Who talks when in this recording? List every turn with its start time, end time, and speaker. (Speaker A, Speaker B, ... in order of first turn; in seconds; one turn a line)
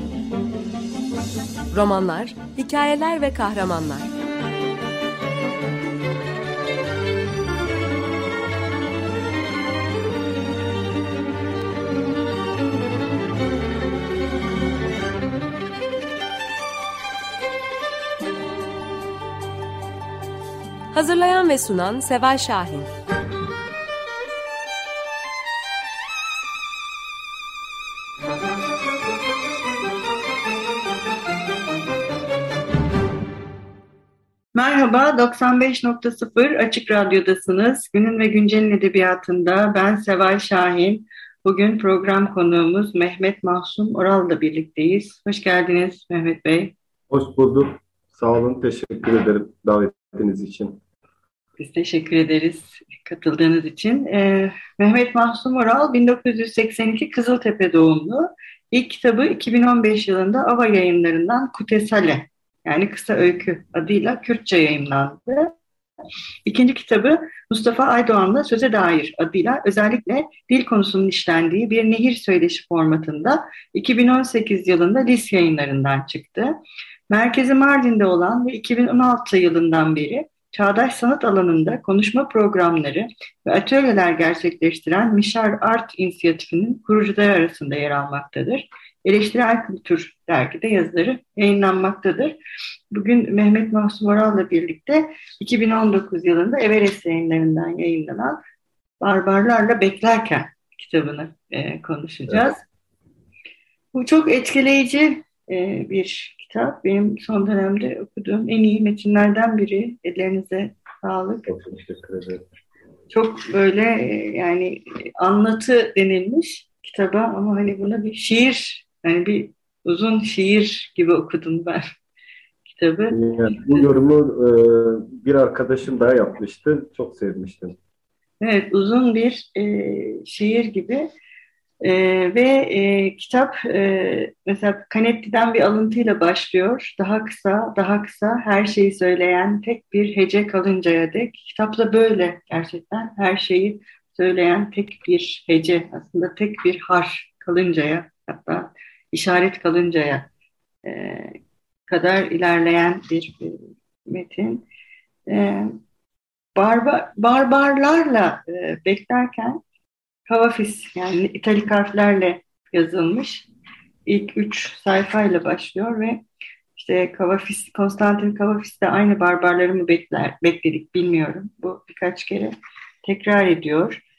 Speaker A: 1.7-4.1
Speaker A: 20.9-22.9
Speaker B: 34.5-46.7
Speaker C: 47.1-50.8
Speaker B: 51.6-65.5
Speaker B: 66.5-76.5
Speaker B: 77.1-92.4
Speaker B: 92.9-98.4
Speaker B: 99.0-102.6
Speaker C: 102.3-102.6
Speaker B: 103.9-111.5
Speaker C: 111.5-112.4
Speaker B: 113.1-121.8
Speaker B: 122.7-123.9
Speaker C: 123.1-127.8
Speaker B: 128.4-131.1
Speaker B: 131.8-150.3
Speaker B: 150.8-154.7
Speaker B: 155.3-155.7
Speaker B: 156.5-159.6
Speaker B: 160.3-163.5
Speaker B: 164.1-166.2
Speaker B: 166.7-174.0